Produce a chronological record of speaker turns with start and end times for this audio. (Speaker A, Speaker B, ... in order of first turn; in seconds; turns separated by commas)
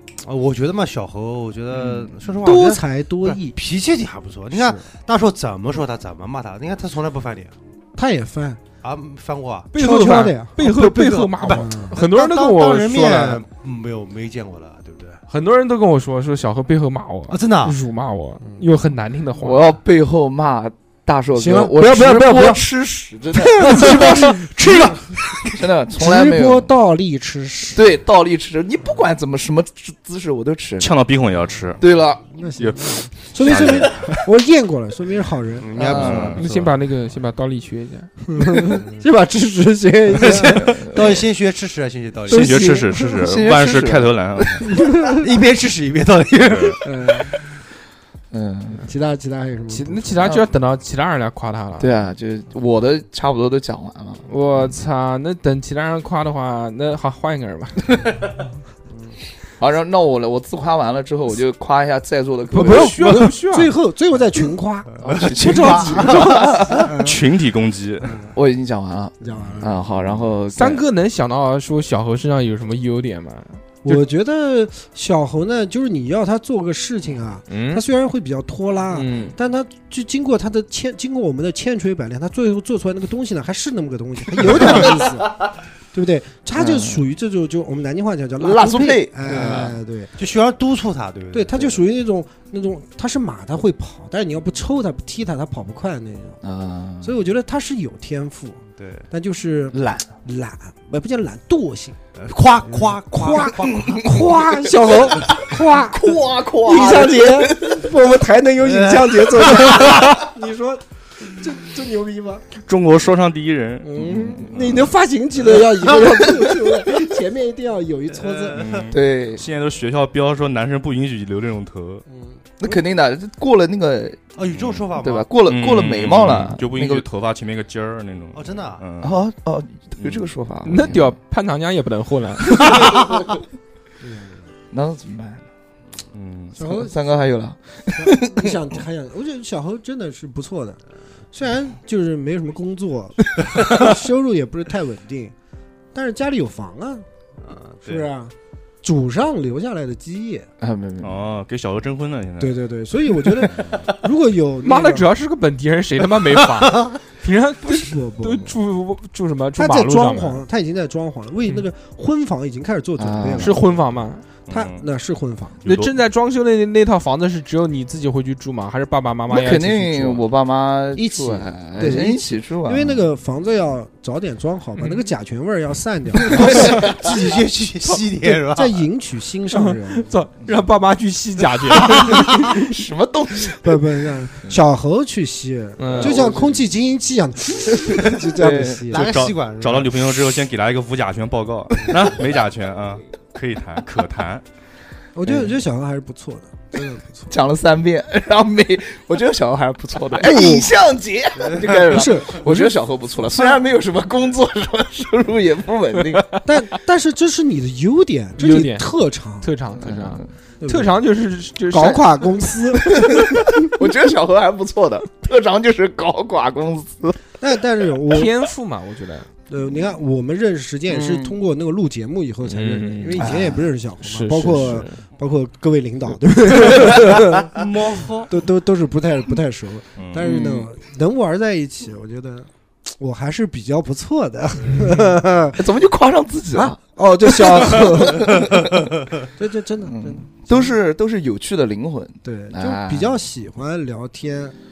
Speaker A: 0.2-7.5, Speaker B: 1.7-2.1, Speaker C: 2.4-3.6, Speaker C: 4.5-4.9, Speaker C: 8.0-8.6, Speaker A: 8.8-9.7, Speaker D: 9.7-13.4, Speaker C: 9.8-10.5, Speaker A: 10.6-15.2, Speaker C: 11.5-12.0, Speaker D: 15.3-19.8, Speaker A: 17.3-17.8, Speaker B: 19.4-24.4, Speaker C: 21.3-22.6, Speaker C: 23.3-27.9, Speaker B: 25.6-26.7, Speaker B: 27.7-30.9, Speaker E: 30.8-31.8, Speaker B: 31.8-32.3, Speaker C: 32.4-35.9, Speaker E: 32.6-34.2, Speaker A: 35.6-36.4, Speaker B: 35.7-36.4, Speaker E: 36.0-36.7, Speaker D: 36.4-38.1, Speaker C: 38.2-40.8, Speaker A: 38.7-39.0, Speaker A: 40.1-42.8, Speaker B: 40.6-41.2, Speaker E: 42.3-44.7, Speaker C: 42.3-43.3, Speaker B: 43.0-44.1, Speaker C: 44.6-45.4, Speaker A: 45.2-47.2, Speaker E: 46.4-46.8, Speaker C: 46.8-47.3, Speaker B: 48.3-48.9, Speaker C: 48.8-50.2, Speaker D: 49.7-52.0, Speaker B: 50.2-50.5, Speaker B: 51.8-54.3, Speaker D: 54.3-57.8, Speaker B: 59.6-63.2, Speaker C: 62.5-67.2, Speaker D: 62.5-63.7, Speaker A: 65.0-66.7, Speaker B: 65.0-66.9, Speaker E: 66.9-68.2, Speaker A: 68.1-68.3, Speaker B: 68.3-70.8, Speaker C: 69.2-69.8, Speaker D: 70.5-74.0, Speaker C: 73.8-90.1, Speaker D: 77.5-77.8, Speaker D: 78.9-79.3, Speaker B: 86.6-87.0, Speaker B: 88.4-89.7, Speaker A: 89.3-91.8, Speaker C: 91.3-96.4, Speaker B: 96.4-97.2, Speaker C: 97.0-98.6, Speaker A: 98.7-99.1, Speaker C: 99.1-102.0, Speaker B: 99.7-100.1, Speaker A: 102.2-104.0, Speaker C: 102.8-112.5, Speaker B: 103.7-107.9, Speaker A: 108.7-109.0, Speaker B: 109.3-110.1, Speaker E: 112.7-114.9, Speaker C: 113.8-118.7, Speaker B: 114.5-114.8, Speaker B: 115.6-116.5, Speaker A: 118.2-118.9, Speaker E: 118.5-122.0, Speaker B: 118.9-119.5, Speaker C: 122.1-122.7, Speaker B: 122.6-124.3, Speaker A: 124.4-125.3, Speaker E: 124.5-124.9, Speaker B: 125.0-127.1, Speaker E: 125.5-129.2, Speaker A: 128.3-128.8, Speaker B: 129.0-131.1, Speaker E: 130.0-130.3, Speaker D: 130.7-132.8, Speaker C: 134.0-134.4, Speaker B: 134.7-135.4, Speaker E: 136.1-136.6, Speaker C: 136.6-136.9, Speaker B: 136.6-138.6, Speaker C: 137.9-145.3, Speaker C: 145.9-147.1, Speaker A: 147.4-148.1, Speaker C: 147.8-150.5, Speaker B: 150.6-151.3, Speaker E: 151.0-152.6, Speaker C: 152.4-155.1, Speaker E: 153.4-153.9, Speaker D: 154.6-160.4, Speaker C: 157.7-158.6, Speaker C: 159.6-163.6, Speaker B: 163.0-163.6, Speaker D: 163.4-164.2, Speaker E: 164.5-164.9, Speaker C: 164.5-165.6, Speaker E: 165.6-165.9, Speaker D: 165.7-170.2, Speaker B: 169.3-173.0, Speaker C: 170.9-176.9, Speaker D: 174.8-175.1, Speaker A: 176.3-178.8, Speaker B: 176.5-177.1, Speaker C: 178.3-180.2, Speaker D: 179.5-182.5, Speaker B: 182.5-184.6, Speaker C: 183.6-189.1, Speaker D: 185.8-186.3, Speaker A: 186.0-186.5, Speaker B: 187.8-188.9, Speaker A: 188.9-190.1, Speaker E: 188.9-194.4, Speaker C: 195.2-197.3, Speaker B: 195.3-195.5, Speaker B: 197.3-206.3, Speaker C: 200.1-200.7, Speaker C: 201.7-203.6, Speaker C: 206.5-209.5, Speaker D: 208.4-208.9, Speaker D: 209.4-212.1, Speaker B: 209.8-210.3, Speaker C: 210.6-211.0, Speaker C: 211.7-213.7, Speaker B: 212.7-217.2, Speaker C: 217.4-218.5, Speaker D: 218.1-219.3, Speaker C: 219.5-227.6, Speaker B: 220.9-221.3, Speaker D: 222.4-223.3, Speaker B: 223.2-223.7, Speaker D: 224.0-225.0, Speaker A: 227.6-228.3, Speaker C: 228.2-235.7, Speaker E: 230.0-230.3, Speaker B: 230.2-230.7, Speaker B: 235.5-238.9, Speaker C: 236.5-238.7, Speaker C: 239.4-240.8, Speaker B: 239.9-243.2, Speaker C: 242.2-244.6